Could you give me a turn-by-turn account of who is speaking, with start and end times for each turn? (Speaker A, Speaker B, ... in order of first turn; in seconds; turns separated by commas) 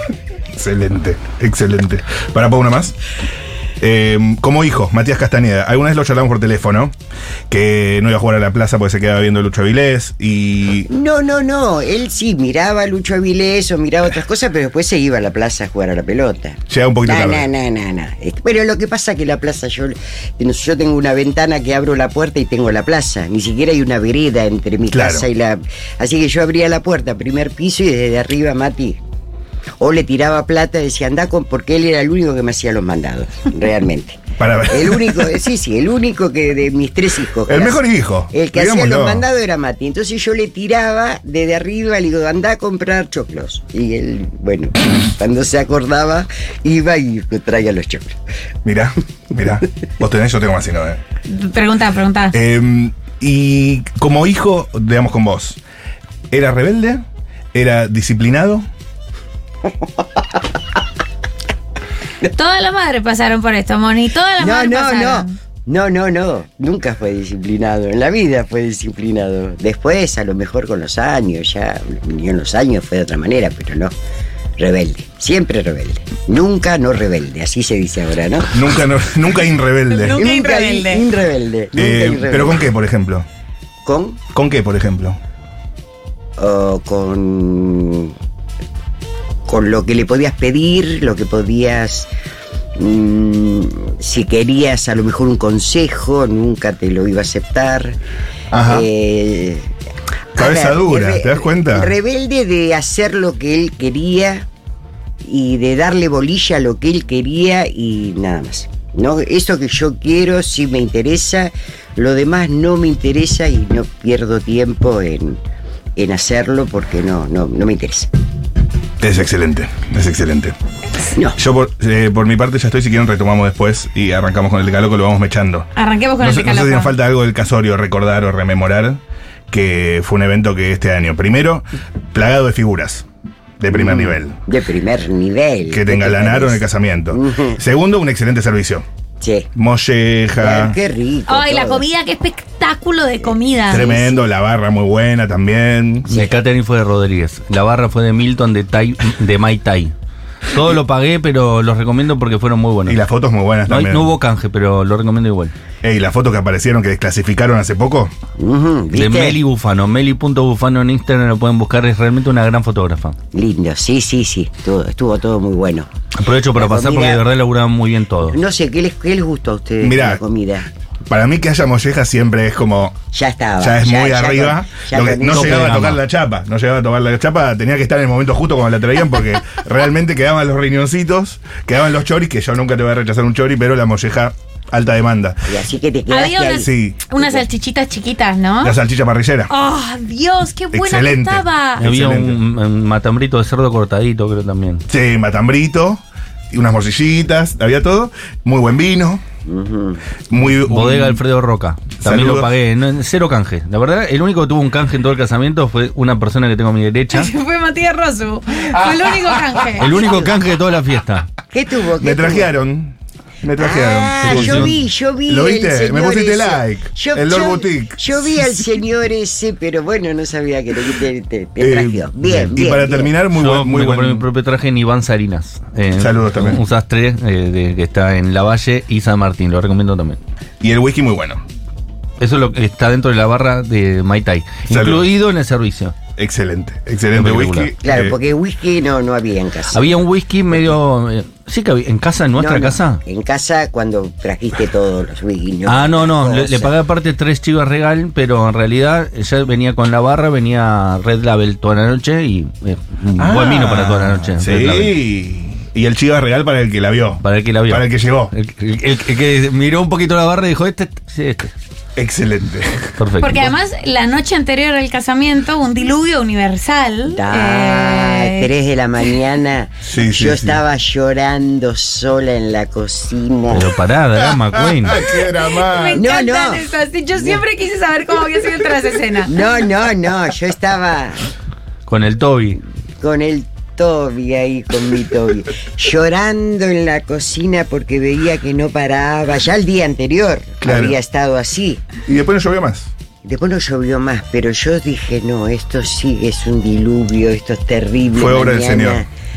Speaker A: 0.5-3.0, Speaker A: 3.8-6.9, Speaker A: 7.5-10.9, Speaker B: 10.9-29.0, Speaker A: 16.7-17.5, Speaker A: 24.9-25.3, Speaker B: 29.8-37.8, Speaker A: 34.4-35.3, Speaker A: 37.5-39.2, Speaker B: 38.3-48.2, Speaker A: 48.6-51.0, Speaker C: 51.3-52.4, Speaker A: 52.3-55.6, Speaker A: 56.3-58.7, Speaker B: 60.0-60.4, Speaker C: 62.3-65.3, Speaker B: 64.4-73.9, Speaker B: 74.6-78.5, Speaker A: 78.5-80.2, Speaker C: 79.9-81.0, Speaker B: 80.1-82.7, Speaker A: 81.7-83.2, Speaker B: 83.8-84.2, Speaker A: 84.3-85.2, Speaker B: 86.4-88.1, Speaker B: 89.5-92.1, Speaker B: 92.8-98.0, Speaker A: 98.5-98.9, Speaker B: 98.7-99.7, Speaker B: 100.3-104.5, Speaker A: 100.4-101.9, Speaker B: 105.2-115.4, Speaker B: 116.0-118.1, Speaker A: 119.0-120.5, Speaker A: 121.4-125.7, Speaker C: 125.8-126.9, Speaker A: 126.2-133.0, Speaker A: 133.6-134.4, Speaker B: 133.7-137.6, Speaker A: 135.7-138.8, Speaker B: 139.2-139.5, Speaker A: 139.6-140.7, Speaker B: 140.4-141.8, Speaker C: 141.3-143.9, Speaker A: 143.7-146.1, Speaker B: 143.7-144.2, Speaker D: 146.1-149.9, Speaker D: 150.5-153.0, Speaker A: 152.8-154.1, Speaker D: 153.7-155.5, Speaker A: 155.8-158.1, Speaker B: 158.4-159.4, Speaker D: 158.9-163.2, Speaker B: 163.3-165.9, Speaker D: 166.2-168.4, Speaker B: 166.5-167.2, Speaker B: 168.3-170.7, Speaker A: 169.8-170.2, Speaker A: 171.1-173.0, Speaker B: 173.1-175.8, Speaker A: 173.6-185.4, Speaker D: 175.2-176.0, Speaker B: 185.4-187.4, Speaker C: 186.1-188.8, Speaker A: 186.6-187.0, Speaker A: 188.6-189.5, Speaker C: 189.5-191.8, Speaker A: 190.7-192.4, Speaker D: 191.8-194.8, Speaker A: 194.9-199.2, Speaker B: 199.4-200.0, Speaker A: 200.3-201.2, Speaker D: 200.6-207.3, Speaker A: 202.0-202.5, Speaker C: 207.1-210.1, Speaker D: 209.8-211.3, Speaker B: 209.8-210.4, Speaker B: 211.5-212.5, Speaker A: 212.0-218.6, Speaker B: 213.6-223.1, Speaker D: 214.2-214.7, Speaker A: 221.6-224.2, Speaker D: 222.3-222.6, Speaker D: 223.3-230.2, Speaker A: 225.9-226.6, Speaker A: 230.6-231.4, Speaker D: 232.2-235.9, Speaker A: 234.7-235.1, Speaker A: 236.2-238.2, Speaker D: 237.1-237.7, Speaker B: 237.8-239.9, Speaker D: 239.7-243.0, Speaker B: 242.4-246.7, Speaker D: 245.7-254.9, Speaker A: 253.2-258.3, Speaker D: 257.2-261.5, Speaker A: 261.9-263.0, Speaker D: 263.0-263.5, Speaker C: 263.2-268.5, Speaker B: 267.1-273.7, Speaker A: 269.9-270.6, Speaker D: 273.5-275.0, Speaker A: 274.2-276.1, Speaker C: 275.2-279.4, Speaker B: 275.9-276.6, Speaker B: 279.2-281.2, Speaker D: 281.9-282.6, Speaker B: 283.0-291.9, Speaker A: 290.6-291.0, Speaker A: 292.0-292.9, Speaker B: 293.2-299.1, Speaker A: 298.1-299.1